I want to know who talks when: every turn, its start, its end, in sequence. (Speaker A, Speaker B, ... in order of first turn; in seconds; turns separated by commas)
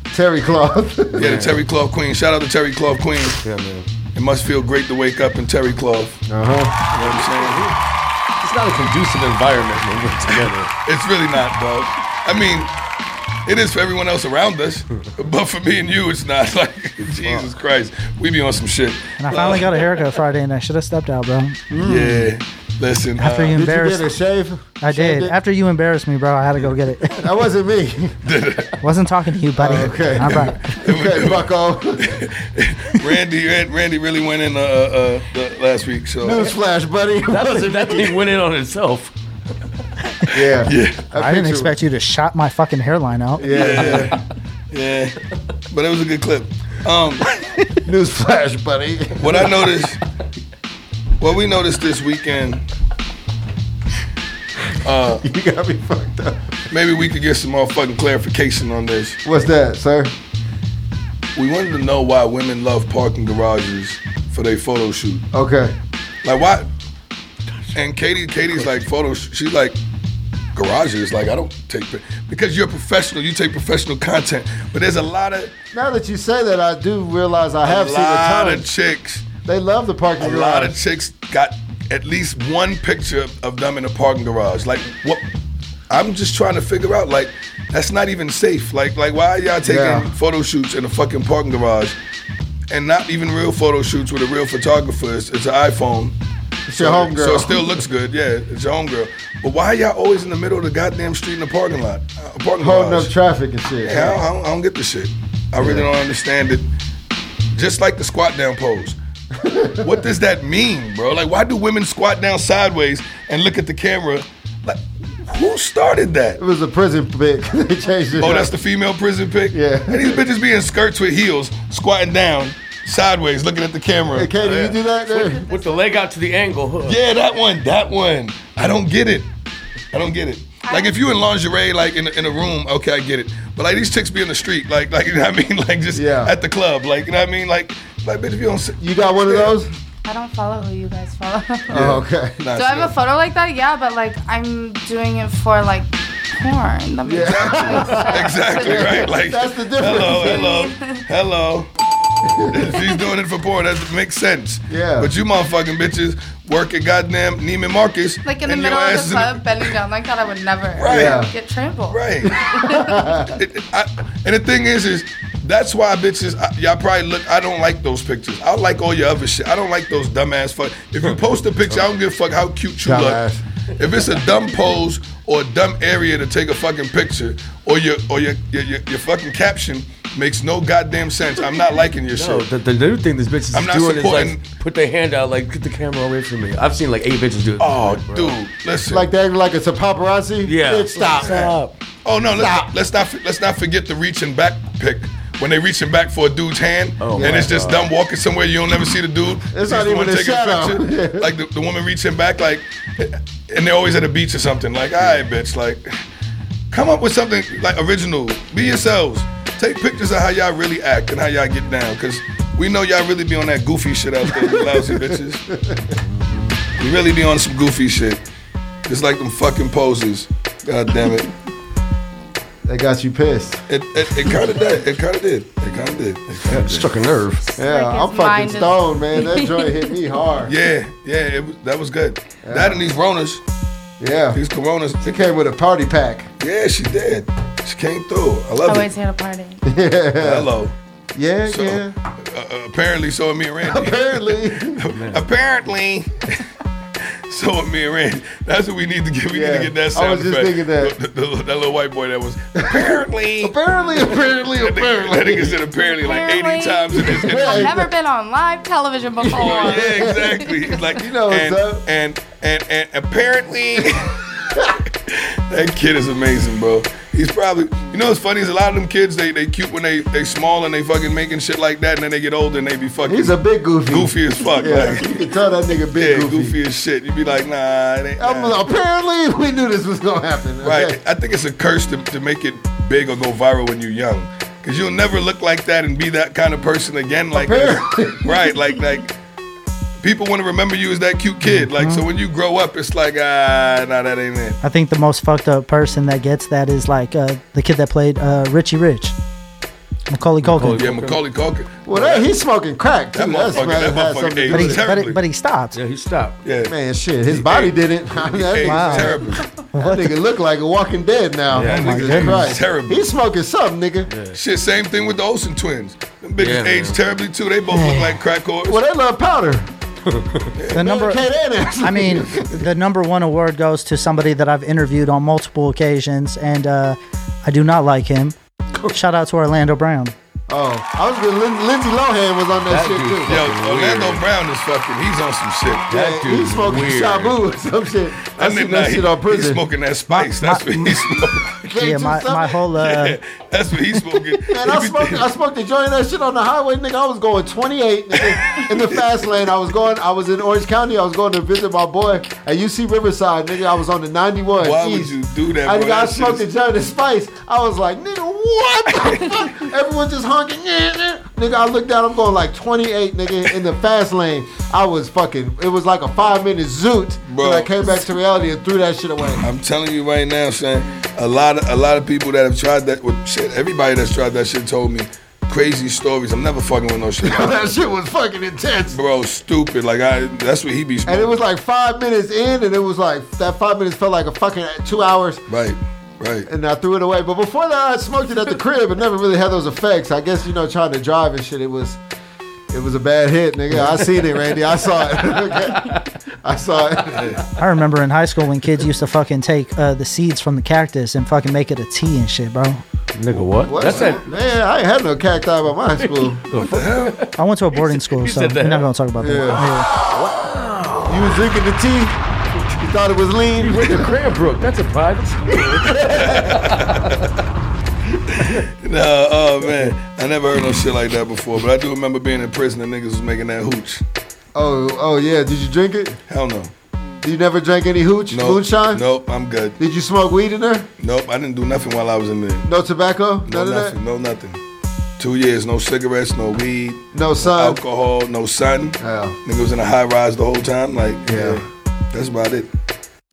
Speaker A: 0.1-1.2, Speaker B: 1.1-1.6, Speaker C: 1.2-3.4, Speaker B: 3.4-3.8, Speaker C: 4.1-6.2, Speaker A: 6.3-6.8, Speaker C: 6.9-7.7, Speaker B: 7.1-7.7, Speaker B: 8.4-10.7, Speaker C: 10.8-12.7, Speaker C: 13.4-19.9, Speaker D: 19.2-21.6, Speaker A: 21.7-22.3, Speaker C: 21.8-23.6, Speaker D: 23.2-24.1, Speaker A: 23.5-25.3, Speaker D: 24.8-27.2, Speaker A: 27.2-28.1, Speaker C: 28.2-28.7, Speaker D: 28.8-30.7, Speaker A: 29.6-32.1, Speaker C: 30.3-36.5, Speaker A: 36.2-38.1, Speaker B: 37.3-39.1, Speaker A: 40.3-41.7, Speaker C: 40.6-41.0, Speaker D: 41.1-44.0, Speaker A: 43.4-44.1, Speaker C: 43.5-44.2, Speaker C: 44.7-45.1, Speaker C: 45.7-47.2, Speaker A: 47.8-49.5, Speaker C: 49.2-50.0, Speaker C: 51.2-52.6, Speaker C: 54.8-55.2, Speaker A: 55.2-56.4, Speaker C: 56.7-59.2, Speaker A: 59.2-60.1, Speaker C: 61.3-65.2, Speaker A: 65.3-65.7, Speaker C: 66.2-66.7, Speaker C: 67.7-69.8, Speaker C: 70.5-75.5, Speaker A: 75.7-78.7, Speaker C: 77.6-79.3, Speaker A: 79.4-80.8, Speaker C: 80.2-85.3, Speaker C: 85.9-91.9, Speaker A: 89.6-90.1, Speaker C: 92.7-96.1, Speaker A: 96.7-97.8, Speaker C: 96.7-103.1, Speaker A: 102.6-104.2, Speaker C: 103.8-106.7, Speaker A: 105.6-105.9, Speaker C: 107.5-109.0, Speaker A: 109.4-109.9, Speaker C: 109.8-116.4, Speaker A: 116.4-118.5, Speaker C: 118.2-124.3, Speaker A: 119.5-120.2, Speaker A: 124.1-125.5, Speaker B: 124.4-127.0, Speaker E: 125.2-126.0, Speaker C: 126.8-129.3, Speaker C: 129.9-139.6, Speaker E: 130.6-131.0, Speaker A: 135.9-136.3, Speaker A: 138.8-139.7, Speaker E: 140.0-141.9, Speaker C: 141.7-142.9, Speaker A: 141.7-142.4, Speaker E: 142.5-149.2, Speaker A: 147.1-150.5, Speaker C: 147.1-151.7, Speaker E: 150.2-151.0, Speaker A: 152.3-152.7, Speaker C: 152.5-159.7, Speaker A: 154.7-155.1, Speaker E: 158.2-163.1, Speaker C: 160.8-161.2, Speaker A: 160.9-161.3, Speaker C: 161.9-162.3, Speaker A: 162.7-163.3, Speaker C: 163.3-173.2, Speaker A: 172.8-173.4, Speaker C: 173.8-182.4, Speaker B: 182.1-188.3, Speaker C: 183.5-184.5, Speaker C: 187.6-189.1, Speaker A: 188.9-191.6, Speaker B: 190.4-191.7, Speaker C: 192.0-205.9, Speaker A: 192.3-192.7, Speaker B: 197.0-197.9, Speaker A: 197.2-197.5, Speaker A: 199.5-201.3, Speaker C: 206.7-215.4, Speaker A: 214.3-215.9, Speaker C: 216.8-218.2, Speaker C: 218.9-221.3, Speaker A: 222.6-223.6, Speaker C: 223.7-226.9, Speaker B: 226.4-227.4, Speaker E: 227.4-229.7, Speaker A: 227.6-230.5, Speaker C: 230.4-233.4, Speaker A: 232.4-232.8, Speaker A: 234.0-234.4, Speaker C: 234.3-235.2, Speaker A: 235.0-236.3, Speaker C: 236.4-238.9, Speaker E: 238.6-239.6, Speaker A: 239.7-240.5, Speaker C: 240.2-240.7, Speaker A: 241.1-241.9, Speaker C: 241.4-246.3, Speaker A: 243.7-244.8, Speaker B: 244.9-245.2, Speaker C: 247.3-253.6, Speaker A: 249.3-250.9, Speaker A: 252.6-255.6, Speaker C: 254.1-257.8, Speaker E: 255.8-260.9, Speaker A: 257.0-257.9, Speaker A: 259.2-260.3, Speaker C: 259.3-264.1, Speaker A: 260.9-261.8, Speaker C: 265.1-273.3, Speaker A: 273.1-276.5, Speaker C: 273.9-275.1, Speaker C: 275.9-278.6, Speaker A: 278.2-281.0, Speaker C: 280.6-289.1, Speaker A: 287.3-288.3, Speaker C: 290.0-294.6, Speaker D: 291.5-292.0, Speaker D: 294.6-299.1, Speaker D: 300.1-300.9, Speaker B: 300.4-301.2, Speaker C: 300.7-302.3, Speaker A: 301.9-304.8, Speaker C: 303.1-305.2, Speaker D: 304.5-305.8, Speaker B: 305.7-306.4, Speaker C: 306.4-306.7, Speaker A: 306.7-309.2, Speaker C: 307.3-309.4, Speaker D: 308.6-309.2, Speaker D: 309.7-310.1, Speaker A: 309.8-314.1, Speaker B: 311.5-312.0, Speaker C: 311.6-313.1, Speaker D: 311.8-312.5, Speaker B: 314.1-314.4, Speaker C: 314.3-318.8, Speaker B: 316.4-317.0, Speaker D: 317.7-318.1, Speaker A: 318.7-319.7, Speaker B: 320.1-320.5, Speaker C: 320.6-320.9, Speaker D: 320.7-321.2, Speaker A: 320.8-322.5, Speaker D: 321.8-328.3, Speaker D: 328.9-330.1, Speaker A: 330.5-333.4, Speaker B: 332.7-334.2, Speaker C: 333.3-335.9, Speaker B: 335.9-337.4, Speaker A: 335.9-339.6, Speaker C: 338.2-341.4, Speaker D: 340.1-341.0, Speaker A: 341.6-342.6, Speaker D: 341.8-343.2, Speaker C: 342.8-345.2, Speaker A: 344.5-355.1, Speaker C: 348.3-349.0, Speaker C: 354.6-356.4, Speaker A: 355.6-369.4, Speaker C: 367.3-367.9, Speaker C: 369.4-377.6, Speaker A: 377.2-379.0, Speaker C: 378.9-381.4, Speaker A: 381.1-385.4, Speaker C: 385.5-386.5, Speaker A: 386.5-392.0, Speaker A: 392.7-397.3, Speaker C: 397.1-397.4, Speaker D: 397.6-402.8, Speaker B: 403.1-404.2, Speaker A: 403.7-406.5, Speaker C: 403.8-404.2, Speaker B: 406.0-408.9, Speaker C: 406.6-407.2, Speaker D: 407.4-409.9, Speaker A: 409.2-409.7, Speaker B: 410.1-411.1, Speaker A: 411.1-412.1, Speaker A: 412.8-414.1, Speaker B: 413.6-416.1, Speaker C: 415.8-417.1, Speaker A: 416.0-416.4, Speaker B: 416.7-417.0, Speaker C: 418.8-424.0, Speaker A: 424.5-426.2, Speaker C: 426.3-426.7, Speaker A: 427.2-429.0, Speaker C: 428.3-429.8, Speaker A: 429.8-430.9, Speaker C: 431.0-432.7, Speaker A: 432.6-434.0, Speaker C: 433.4-434.6, Speaker C: 435.2-442.7, Speaker A: 437.1-437.8, Speaker A: 439.0-439.4, Speaker A: 441.2-441.6